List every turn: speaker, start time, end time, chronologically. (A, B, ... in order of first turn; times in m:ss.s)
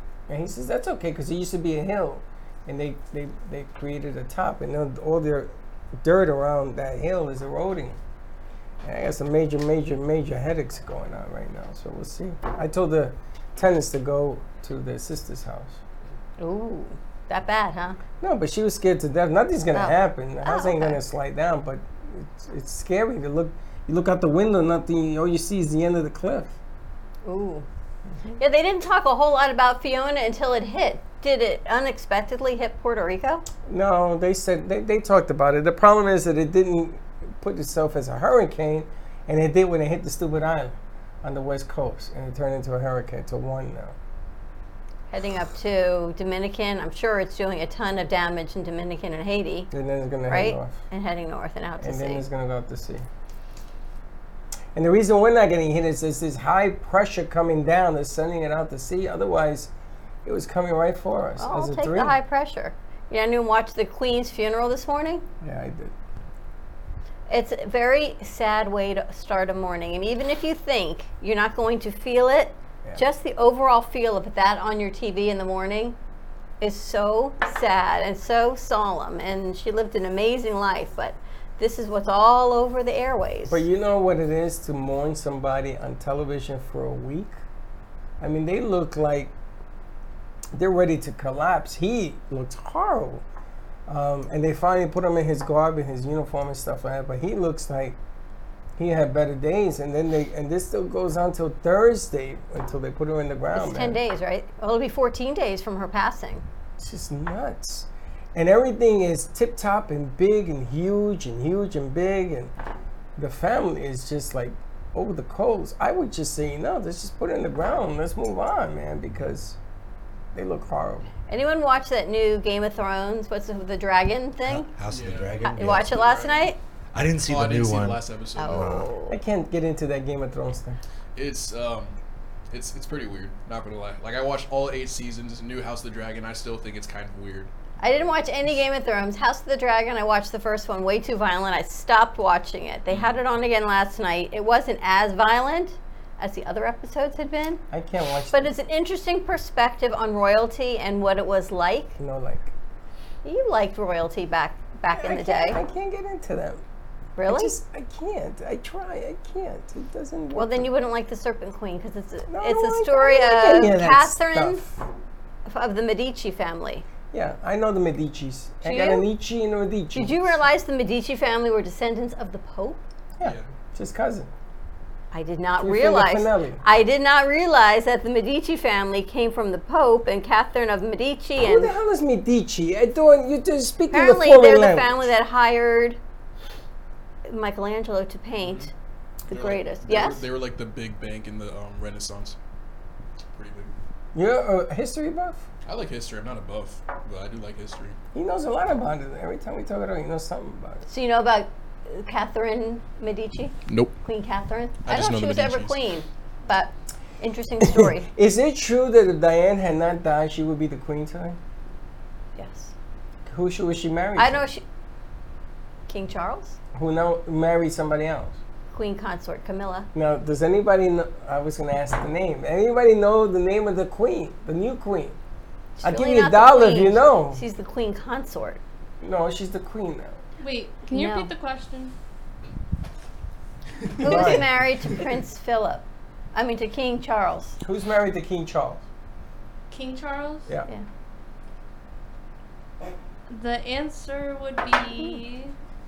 0:00.3-0:08.0 A
0:08.8-0:15.8 A
0:16.4-0:18.0 B
0:18.2-0:26.5 A
0:19.7-0:21.0 B
0:27.2-0:27.7 B
0:28.4-0:33.4 B
0:33.6-0:44.0 A
0:45.1-0:49.7 B
0:49.7-0:50.8 A
0:50.3-0:52.2 B
0:51.8-0:53.0 A
0:54.8-0:59.7 A
1:00.2-1:02.2 A
1:01.4-1:05.2 B
1:05.4-1:05.9 A
1:07.3-1:16.0 B
1:16.6-1:23.6 B
1:23.5-1:27.4 A
1:28.2-1:29.3 A
1:30.5-1:33.2 A
1:33.9-1:38.0 A
1:38.8-1:44.0 A
1:43.5-1:46.4 B
1:46.8-1:52.5 A
1:53.2-1:59.6 A
2:00.3-2:01.1 A
2:01.3-2:04.7 B
2:04.4-2:06.0 C
2:04.8-2:06.5 D
2:05.4-2:06.6 B
2:06.9-2:08.9 C
2:07.2-2:08.8 D
2:08.4-2:09.2 B
2:09.1-2:10.8 A
2:11.1-2:12.0 D
2:12.5-2:17.5 D
2:17.8-2:27.6 B
2:22.9-2:23.2 D
2:27.7-2:28.5 A
2:28.3-2:32.0 B
2:32.0-2:32.5 A
2:33.2-2:35.6 B
2:34.9-2:36.6 A
2:37.2-2:37.6 B
2:37.2-2:40.7 A
2:40.3-2:44.6 B
2:42.3-2:44.8 A
2:45.5-2:46.8 B
2:47.1-2:50.3 A
2:48.6-2:49.1 B
2:49.9-2:52.8 B
2:53.2-2:54.3 A
2:53.2-2:53.5 D
2:55.1-3:01.7 B
2:55.6-2:56.6 A
3:01.4-3:05.1 A
3:03.9-3:06.0 B
3:07.2-3:08.7 B
3:08.4-3:08.7 D
3:09.3-3:12.4 D
3:09.3-3:10.2 B
3:13.3-3:13.7 D
3:14.1-3:15.5 A
3:15.6-3:18.0 D
3:18.1-3:20.8 A
3:20.9-3:28.1 B
3:23.7-3:24.0 D
3:24.8-3:25.8 D
3:27.6-3:31.4 A
3:32.3-3:32.7 B
3:33.2-3:34.4 A
3:34.2-3:34.6 B
3:35.9-3:36.6 B
3:36.8-3:38.4 A
3:38.7-3:39.9 B
3:39.9-3:45.2 A
3:45.8-3:48.6 B
3:45.8-3:47.4 A
3:49.0-3:50.2 A
3:50.4-3:51.9 E
3:50.9-3:51.3 B
3:54.0-3:57.6 B
3:54.0-3:54.5 A
3:57.6-3:58.8 A
3:59.7-4:00.5 E
4:03.3-4:05.5 E